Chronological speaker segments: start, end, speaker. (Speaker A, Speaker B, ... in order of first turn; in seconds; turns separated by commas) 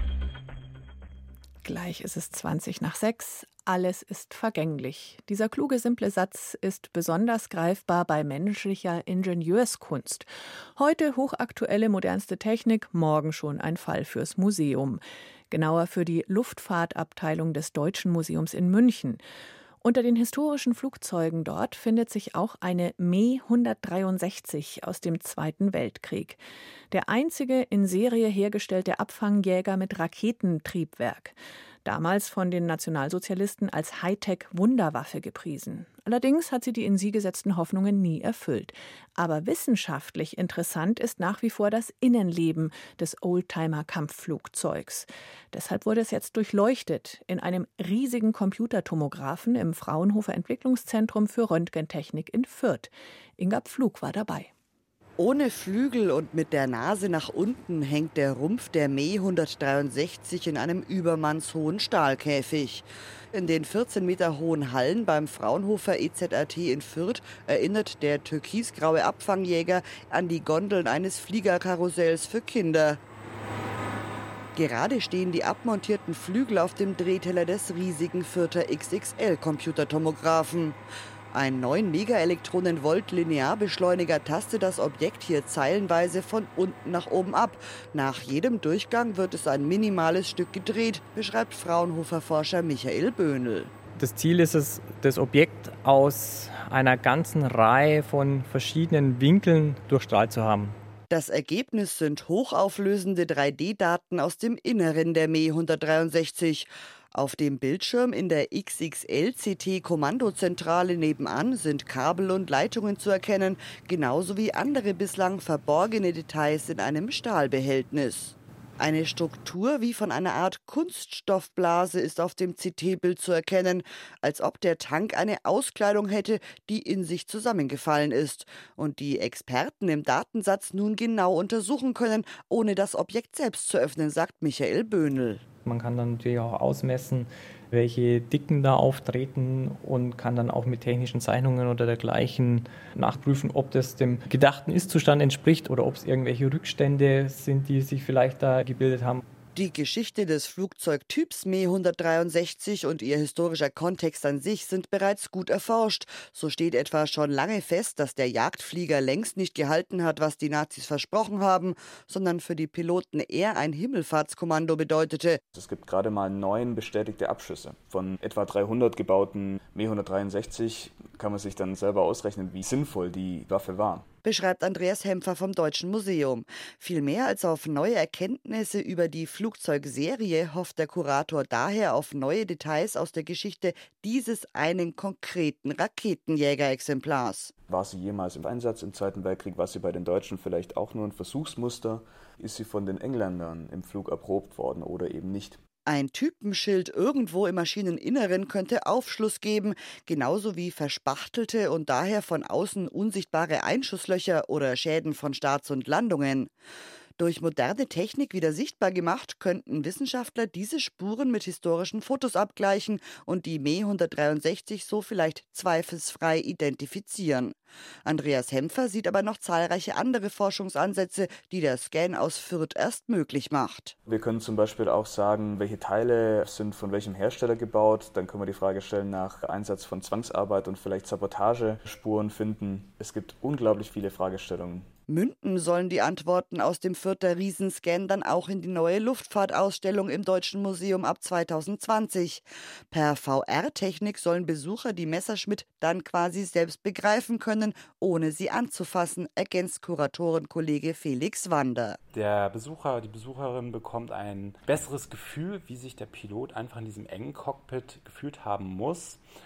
Speaker A: 1.6-19.2, Speaker A: 19.8-54.5, Speaker B: 55.2-73.0, Speaker B: 74.5-80.8, Speaker B: 81.3-93.7, Speaker C: 94.0-100.8, Speaker B: 101.1-135.4, Speaker C: 135.6-149.2, Speaker B: 149.5-165.4, Speaker D: 165.5-174.0, Speaker B: 174.2-187.5, Speaker D: 187.7-195.6, Speaker B: 195.8-206.5, Speaker B: 207.2-223.9, Speaker D: 224.1-234.9, Speaker B: 235.1-252.0, Speaker E: 252.1-259.2